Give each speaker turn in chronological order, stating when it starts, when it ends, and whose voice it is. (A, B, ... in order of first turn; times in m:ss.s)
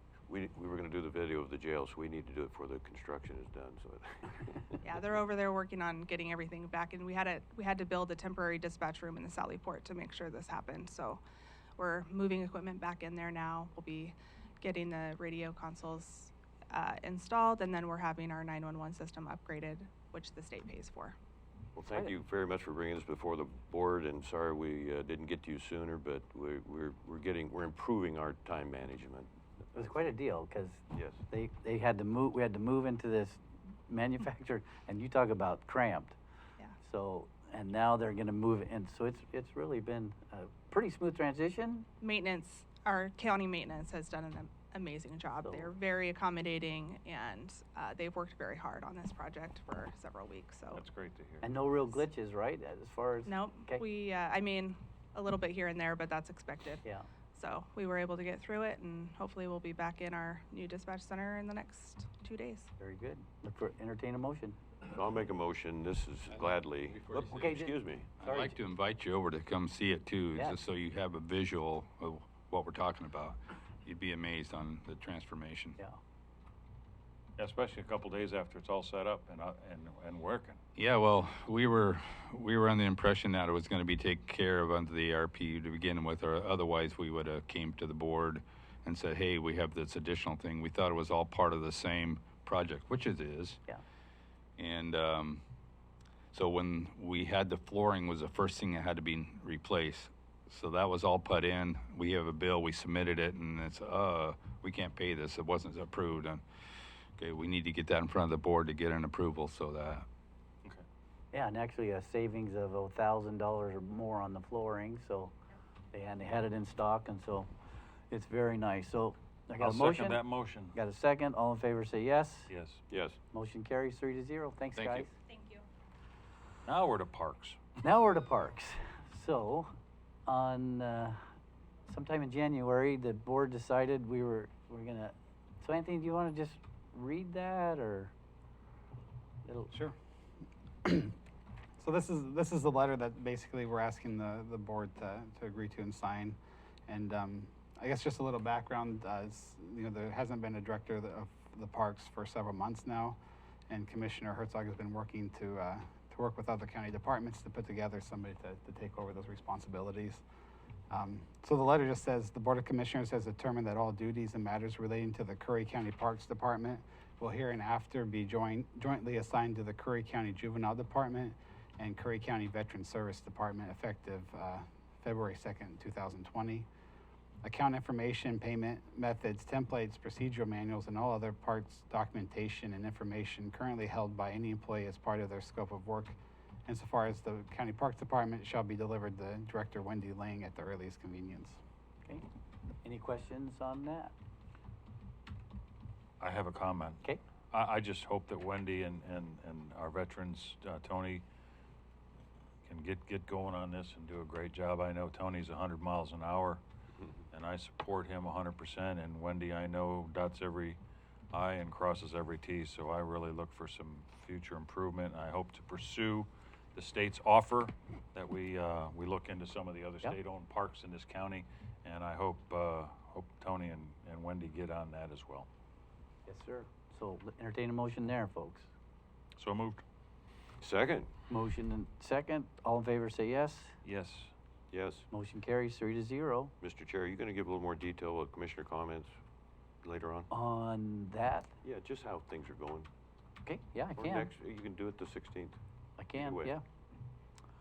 0:00.3-0:04.8 A
0:04.8-0:11.2 B
0:11.8-0:21.2 B
0:21.8-0:30.2 A
0:29.8-0:36.2 C
0:30.9-0:31.2 A
0:36.8-0:41.9 C
0:42.0-0:50.8 B
0:45.4-0:45.7 C
0:50.7-0:51.5 D
0:51.4-0:53.8 C
0:53.3-1:02.7 B
0:56.8-0:57.1 C
1:02.8-1:04.6 C
1:04.8-1:08.2 A
1:07.4-1:08.6 C
1:08.2-1:15.8 E
1:17.4-1:20.6 D
1:20.8-1:33.6 E
1:34.6-1:35.4 E
1:36.3-1:46.4 E
1:47.2-1:50.1 E
1:51.3-1:55.3 C
1:55.9-1:57.5 C
1:58.1-2:00.2 C
1:59.6-2:00.8 D
2:00.7-2:02.5 C
2:02.5-2:02.8 D
2:02.9-2:03.2 A
2:03.3-2:05.2 C
2:04.7-2:05.1 E
2:05.3-2:05.6 B
2:06.7-2:07.6 D
2:07.8-2:09.7 C
2:10.3-2:11.2 C
2:11.9-2:18.1 C
2:19.5-2:19.7 C
2:20.8-2:21.2 F
2:21.8-2:33.2 F
2:33.7-2:40.2 F
2:40.9-2:56.7 F
2:57.4-3:11.6 F
3:12.8-3:14.1 C
3:16.2-3:21.2 D
3:22.7-3:26.6 D
3:27.3-3:30.8 D
3:31.3-3:45.5 D
3:46.3-3:48.7 C
3:49.4-3:49.8 D
3:50.6-3:51.2 A
3:51.3-3:53.8 C
3:53.8-3:54.3 D
3:54.7-3:55.1 A
3:55.1-3:56.5 C
3:56.6-3:59.1 A
3:59.8-4:00.3 A
4:00.3-4:01.5 C
4:01.6-4:02.9 A
4:03.4-4:04.3 C
4:04.0-4:05.6 A
4:06.0-4:06.6 C
4:06.2-4:06.6 A